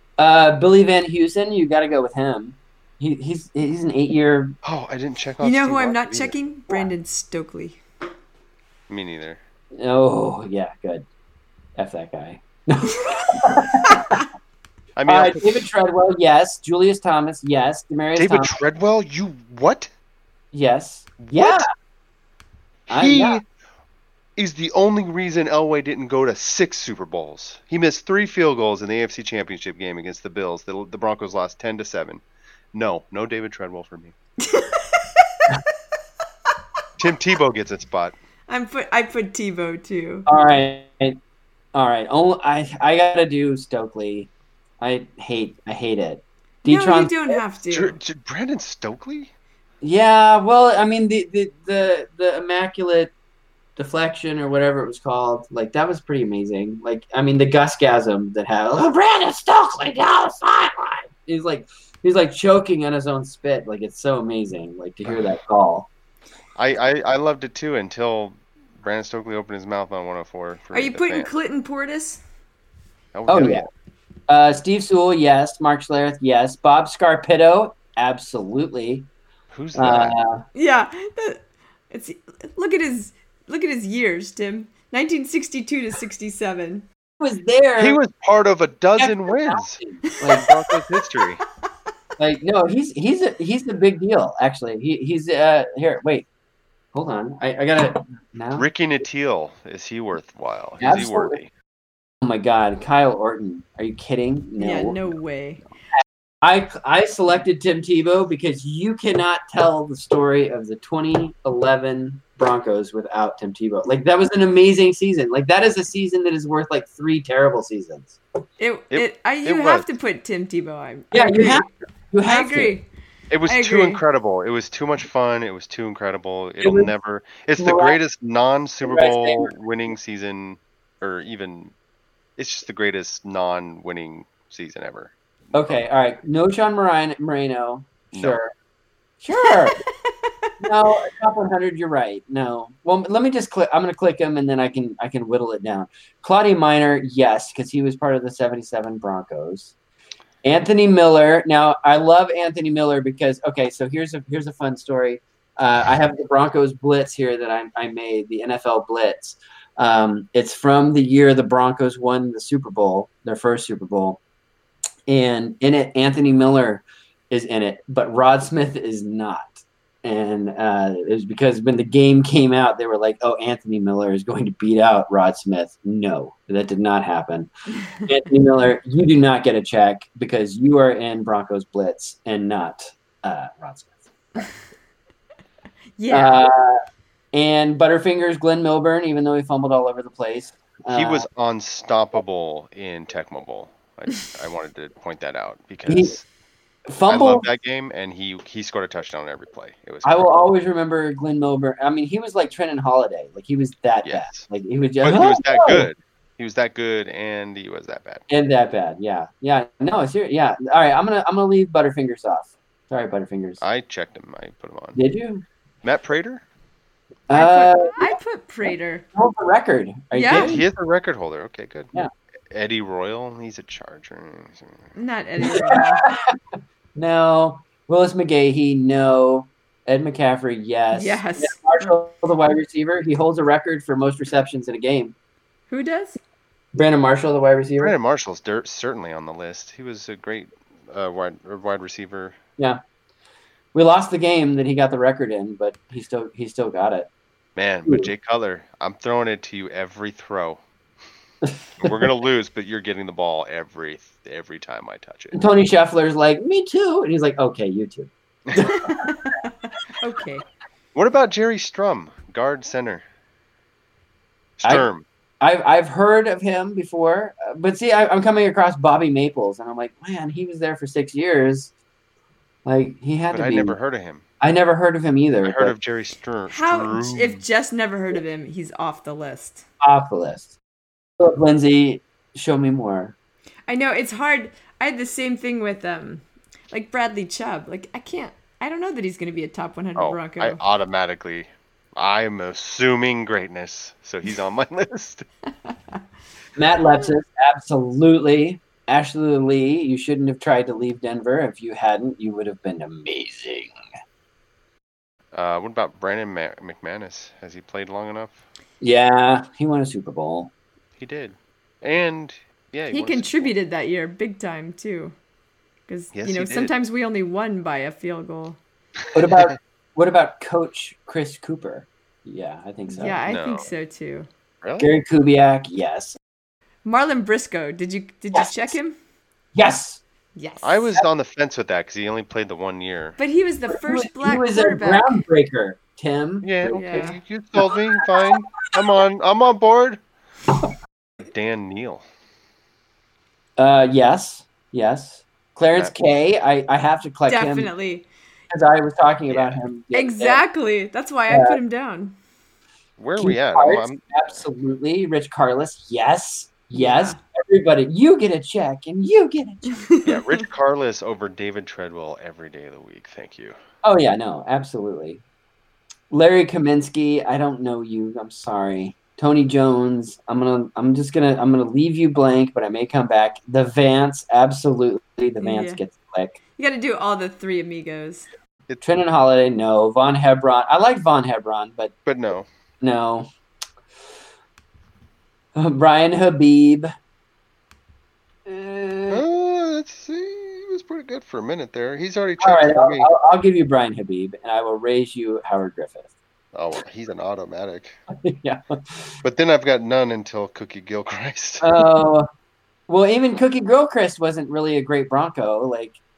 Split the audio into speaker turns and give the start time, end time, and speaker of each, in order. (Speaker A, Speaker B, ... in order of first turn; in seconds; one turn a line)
Speaker A: 0.2-4.5
Speaker B: 4.6-6.3
Speaker C: 5.4-7.8
Speaker B: 8.9-9.4
Speaker A: 9.8-11.0
Speaker A: 11.8-14.2
Speaker B: 15.0-15.5
Speaker A: 15.1-18.5
Speaker B: 18.2-19.9
Speaker A: 20.5-21.6
Speaker B: 21.2-21.6
Speaker B: 22.9-23.4
Speaker A: 22.9-23.4
Speaker B: 24.4-32.2
Speaker B: 32.7-34.1
Speaker C: 34.5-35.0
Speaker B: 37.0-38.1
Speaker C: 38.5-40.2
Speaker A: 40.3-41.2
Speaker A: 41.7-44.3
Speaker A: 44.8-47.4
Speaker C: 46.6-48.0
Speaker B: 47.7-49.3
Speaker A: 49.8-53.1
Speaker A: 53.8-65.9
Speaker B: 65.0-65.3
Speaker B: 66.5-71.3
Speaker C: 70.7-72.2
Speaker B: 73.1-73.7
Speaker A: 73.3-73.7
Speaker A: 74.3-79.1
Speaker B: 79.5-80.2
Speaker A: 79.7-80.4
Speaker C: 80.5-86.8
Speaker A: 87.2-88.0
Speaker B: 87.8-89.8
Speaker A: 89.0-90.5
Speaker B: 90.3-91.4
Speaker A: 92.2-96.2
Speaker A: 96.9-98.6
Speaker B: 98.5-101.5
Speaker A: 100.8-101.4
Speaker A: 102.2-105.0
Speaker C: 104.6-105.6
Speaker A: 106.4-118.2
Speaker C: 118.6-121.7
Speaker B: 118.9-119.9
Speaker A: 121.1-122.7
Speaker C: 122.2-122.9
Speaker B: 123.3-131.7
Speaker C: 123.5-124.0
Speaker A: 126.6-126.9
Speaker A: 127.6-128.0
Speaker A: 128.8-129.5
Speaker B: 132.4-135.8
Speaker A: 135.5-138.5
Speaker A: 139.2-139.8
Speaker C: 139.4-140.5
Speaker A: 140.6-149.7
Speaker A: 150.4-164.2
Speaker A: 165.1-169.5
Speaker A: 170.0-184.5
Speaker C: 186.0-186.4
Speaker A: 186.1-186.8
Speaker A: 187.3-191.3
Speaker B: 190.9-196.2
Speaker A: 195.9-196.1
Speaker A: 196.9-197.4
Speaker B: 197.1-200.3
Speaker A: 200.0-205.9
Speaker B: 204.0-204.5
Speaker B: 205.0-208.2
Speaker A: 208.3-213.6
Speaker B: 213.6-215.0
Speaker A: 214.9-215.4
Speaker B: 215.8-216.4
Speaker A: 217.3-218.1
Speaker C: 217.3-219.0
Speaker A: 219.1-220.7
Speaker C: 220.1-220.5
Speaker B: 220.3-221.9
Speaker B: 222.5-224.8
Speaker C: 224.9-226.1
Speaker A: 225.4-226.3
Speaker A: 226.9-235.1
Speaker C: 230.9-231.9
Speaker C: 235.7-236.2
Speaker A: 236.7-237.9
Speaker B: 237.8-242.4
Speaker A: 243.7-247.1
Speaker B: 247.6-250.6
Speaker A: 251.4-251.9
Speaker B: 251.8-255.4
Speaker A: 255.3-259.1
Speaker C: 258.7-260.4
Speaker B: 260.9-263.0
Speaker B: 264.6-265.0
Speaker A: 265.4-271.7
Speaker A: 272.6-273.7
Speaker B: 273.3-274.2
Speaker A: 274.4-275.7
Speaker B: 275.4-277.4
Speaker C: 276.5-279.6
Speaker A: 279.8-280.6
Speaker A: 281.2-283.1
Speaker C: 283.7-290.6
Speaker B: 290.0-295.2
Speaker C: 295.6-296.0
Speaker A: 296.6-303.7
Speaker B: 305.3-308.4
Speaker A: 308.8-310.5
Speaker B: 311.0-313.5
Speaker C: 312.9-315.1
Speaker C: 315.9-318.6
Speaker B: 316.1-316.7
Speaker A: 319.1-323.2
Speaker C: 322.9-324.3
Speaker B: 323.2-323.7
Speaker B: 324.6-324.9
Speaker A: 324.8-326.2
Speaker C: 326.8-328.9
Speaker A: 328.3-328.7
Speaker A: 329.5-330.0
Speaker C: 330.4-330.9
Speaker B: 330.6-333.2
Speaker C: 333.2-335.2
Speaker A: 333.7-337.8
Speaker B: 336.4-340.0
Speaker C: 336.7-337.2
Speaker B: 341.2-342.0
Speaker A: 343.6-347.7
Speaker C: 347.3-348.1
Speaker A: 348.5-350.4
Speaker B: 349.3-349.6
Speaker C: 349.9-352.1
Speaker A: 351.3-351.6
Speaker B: 353.0-354.1
Speaker A: 353.2-359.8
Speaker C: 356.7-357.2
Speaker C: 359.8-360.2
Speaker B: 360.0-363.6
Speaker A: 363.8-365.2
Speaker A: 366.1-376.4
Speaker C: 375.4-375.8
Speaker C: 376.6-378.3
Speaker A: 378.8-381.9
Speaker B: 382.1-382.5
Speaker A: 382.8-383.3
Speaker A: 385.6-386.9
Speaker A: 388.4-389.2
Speaker B: 389.1-393.1
Speaker A: 392.4-396.1
Speaker B: 396.5-398.0
Speaker A: 398.2-399.1
Speaker B: 399.2-401.8
Speaker A: 401.6-402.3
Speaker A: 402.9-406.0